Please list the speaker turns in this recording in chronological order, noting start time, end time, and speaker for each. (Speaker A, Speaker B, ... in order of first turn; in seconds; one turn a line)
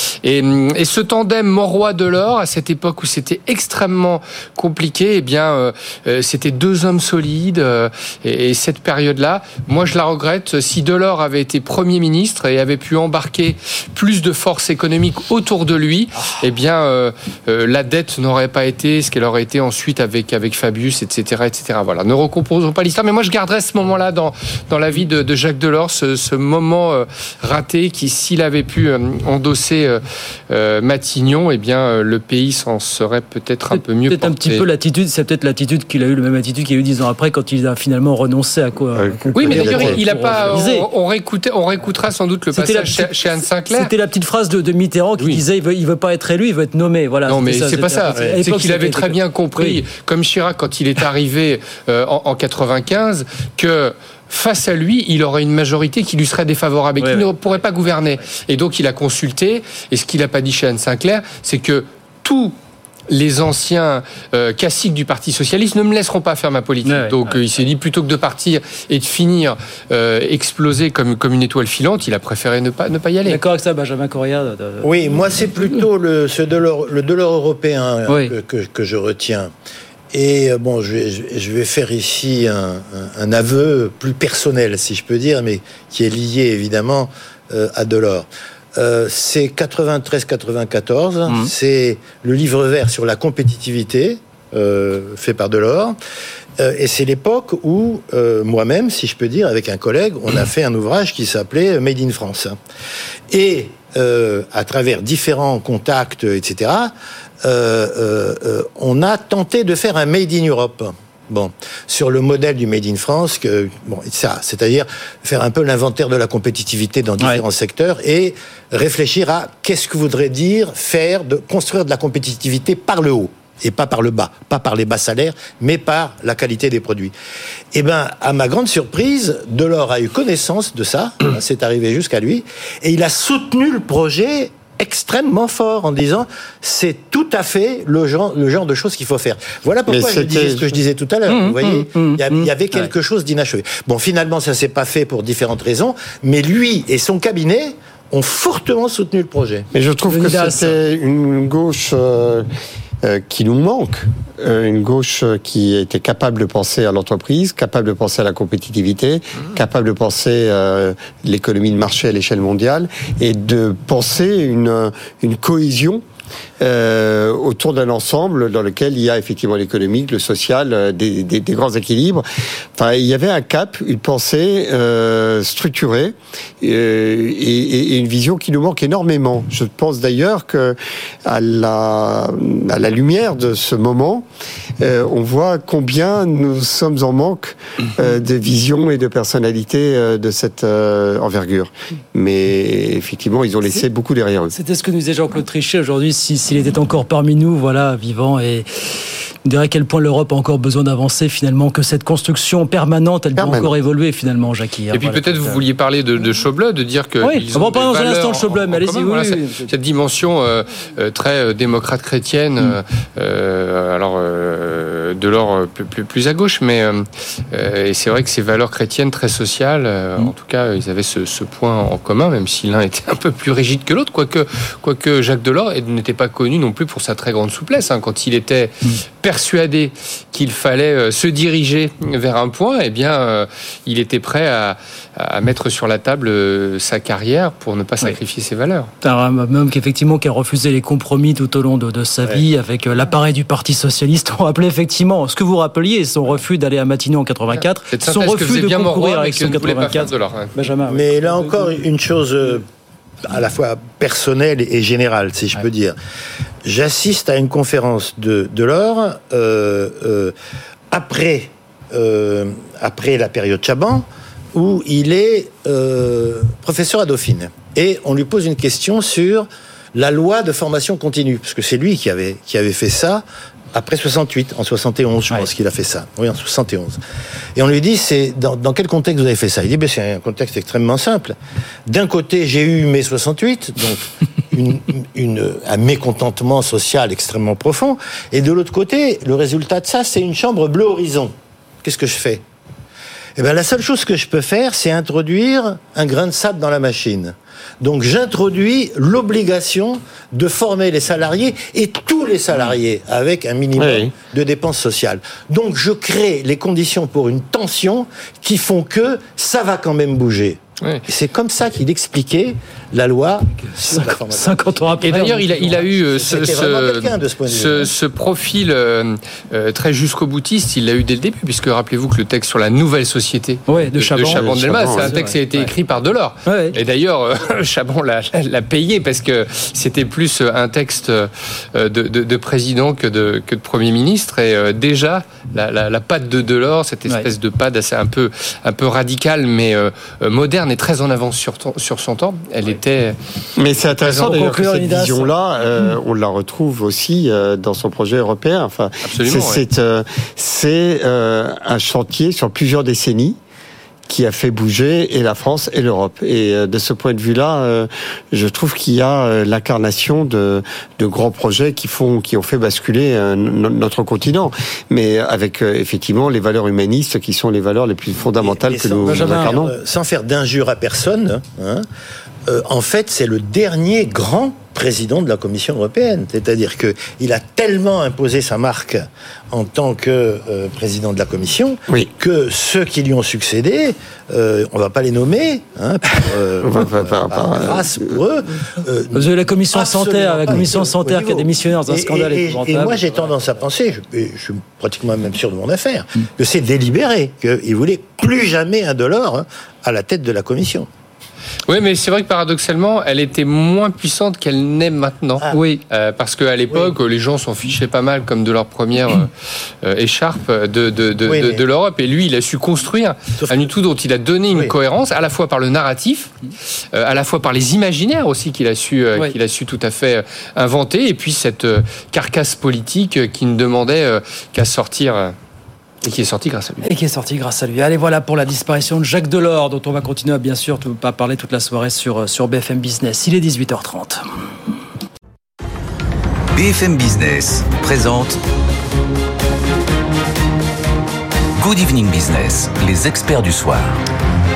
Speaker A: 0.2-34.6
Speaker B: 33.7-40.9
Speaker C: 38.9-40.4
Speaker A: 39.3-43.9
Speaker B: 42.5-49.8
Speaker A: 47.3-62.5
Speaker B: 57.0-57.3
Speaker A: 63.1-73.4
Speaker B: 66.8-67.2
Speaker B: 73.2-74.9
Speaker D: 74.8-79.5
Speaker B: 78.1-78.3
Speaker D: 80.1-96.0
Speaker D: 96.6-102.6
Speaker D: 103.3-127.1
Speaker D: 127.7-149.7
Speaker C: 139.9-140.7
Speaker B: 141.3-142.8
Speaker C: 149.7-152.5
Speaker B: 150.1-150.8
Speaker C: 153.0-166.0
Speaker C: 166.6-172.2
Speaker C: 172.8-184.2
Speaker C: 184.8-194.5
Speaker B: 194.5-198.7
Speaker B: 199.4-205.6
Speaker C: 203.4-203.7
Speaker A: 204.9-238.9
Speaker B: 207.2-209.7
Speaker B: 239.0-251.7
Speaker A: 247.9-250.6
Speaker D: 250.9-252.7
Speaker D: 253.2-256.0
Speaker D: 256.6-260.3
Speaker D: 260.9-277.0
Speaker D: 277.6-292.4
Speaker D: 293.4-317.9
Speaker C: 303.8-304.1
Speaker B: 313.7-315.8
Speaker A: 315.0-343.1
Speaker B: 323.7-325.7
Speaker C: 324.3-325.1
Speaker B: 326.4-326.8
Speaker C: 343.6-353.4
Speaker A: 343.8-344.4
Speaker B: 344.1-345.3
Speaker A: 349.0-349.6
Speaker C: 354.1-369.7
Speaker D: 368.3-371.9
Speaker B: 369.1-369.5
Speaker D: 372.4-400.9
Speaker C: 386.6-388.1
Speaker B: 389.1-393.0
Speaker A: 401.7-409.3
Speaker B: 405.5-405.8
Speaker A: 409.8-416.3
Speaker D: 411.2-411.6
Speaker D: 413.4-413.7
Speaker A: 416.9-425.3
Speaker A: 426.0-426.8
Speaker B: 426.8-434.2
Speaker E: 436.5-438.4
Speaker E: 441.6-443.9